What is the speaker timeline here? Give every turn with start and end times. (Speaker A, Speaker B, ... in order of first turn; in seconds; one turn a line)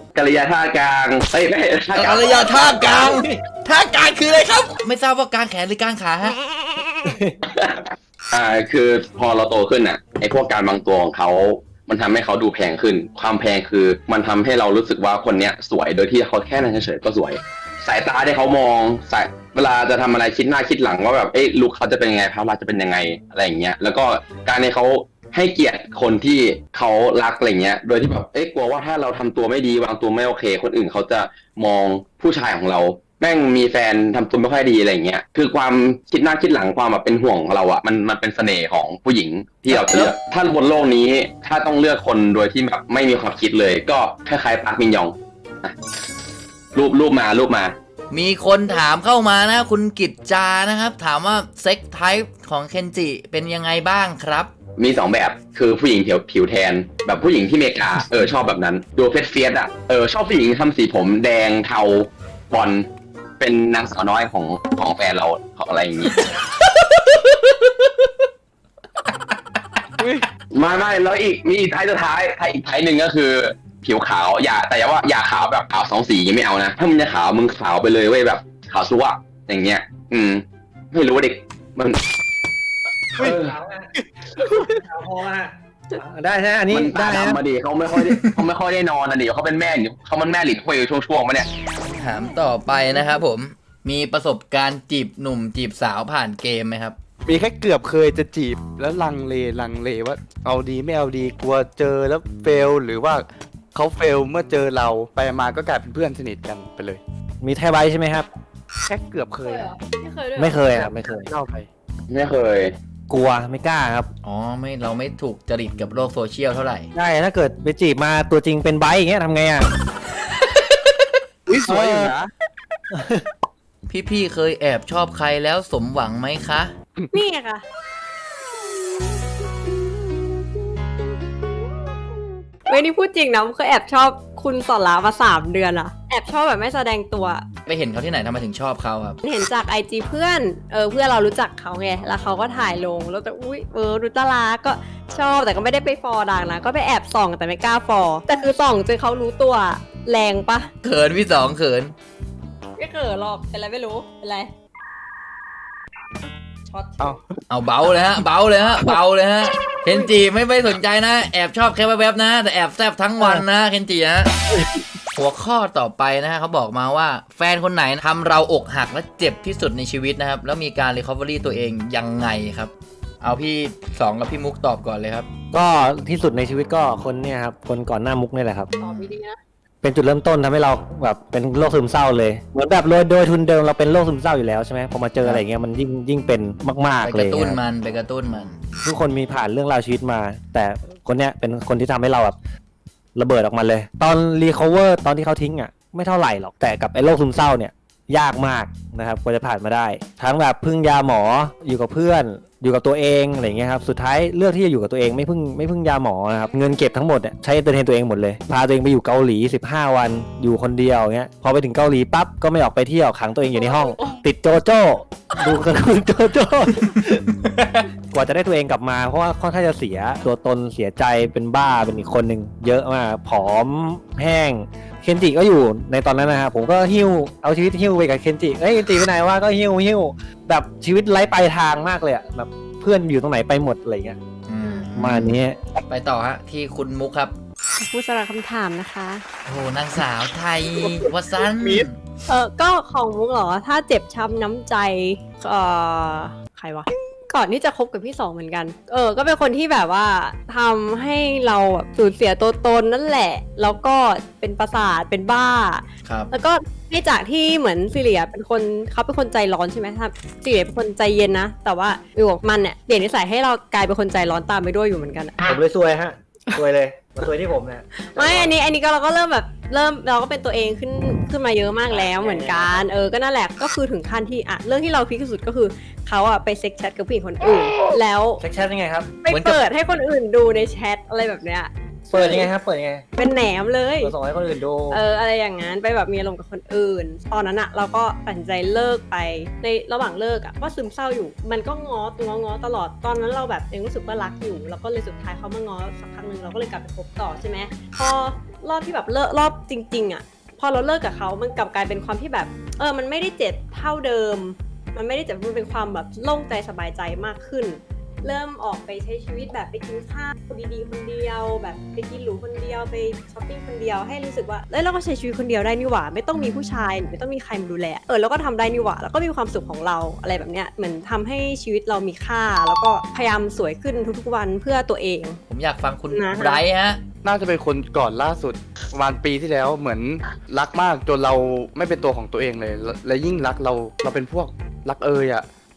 Speaker A: 0.1-2.9
Speaker B: 1.9-6.4
Speaker C: 7.0-7.4
Speaker A: 7.5-45.7
Speaker B: 39.7-40.1
Speaker A: 46.7-47.7
Speaker B: 48.1-54.5
Speaker A: 54.8-62.9
Speaker A: 63.4-66.2
Speaker B: 66.2-68.0
Speaker B: 69.1-69.3
Speaker D: 70.0-70.2
Speaker A: 70.5-82.0
Speaker C: 83.2-83.9
Speaker A: 83.2-83.5
Speaker C: 84.6-87.4
Speaker A: 86.7-91.5
Speaker B: 88.0-88.3
Speaker B: 91.9-97.0
Speaker D: 97.2-107.0
Speaker C: 107.4-108.3
Speaker D: 108.8-109.7
Speaker E: 109.4-110.8
Speaker C: 110.4-111.3
Speaker D: 110.7-111.7
Speaker A: 112.1-112.7
Speaker C: 113.1-114.1
Speaker B: 114.2-116.9
Speaker C: 116.9-119.7
Speaker D: 121.5-122.3
Speaker C: 121.7-122.2
Speaker C: 122.9-123.2
Speaker B: 123.9-126.7
Speaker E: 127.1-127.6
Speaker E: 128.8-130.6
Speaker E: 132.7-137.4
Speaker B: 137.7-139.2
Speaker E: 139.2-150.7
Speaker B: 150.8-151.9
Speaker E: 152.8-154.5
Speaker E: 156.7-157.2
Speaker B: 157.5-164.3
Speaker C: 163.2-163.4
Speaker B: 165.1-175.3
Speaker C: 175.5-178.7
Speaker E: 178.8-179.4
Speaker B: 178.8-179.1
Speaker C: 179.8-187.6
Speaker B: 187.0-188.6
Speaker C: 188.8-192.3
Speaker C: 193.1-217.2
Speaker B: 217.4-217.9
Speaker C: 218.1-234.2
Speaker B: 234.5-237.3
Speaker C: 234.9-235.6
Speaker E: 237.8-239.2
Speaker B: 239.4-242.0
Speaker D: 240.8-241.8
Speaker E: 242.3-265.4
Speaker B: 256.0-256.3
Speaker C: 265.4-268.5
Speaker E: 268.0-278.4
Speaker C: 271.9-272.9
Speaker C: 278.4-279.1
Speaker E: 279.2-282.5
Speaker B: 279.3-279.6
Speaker C: 282.1-283.1
Speaker E: 283.2-284.1
Speaker C: 284.0-285.0
Speaker E: 284.9-325.4
Speaker B: 316.3-316.8
Speaker B: 325.5-327.0
Speaker E: 326.1-326.6
Speaker D: 327.2-335.4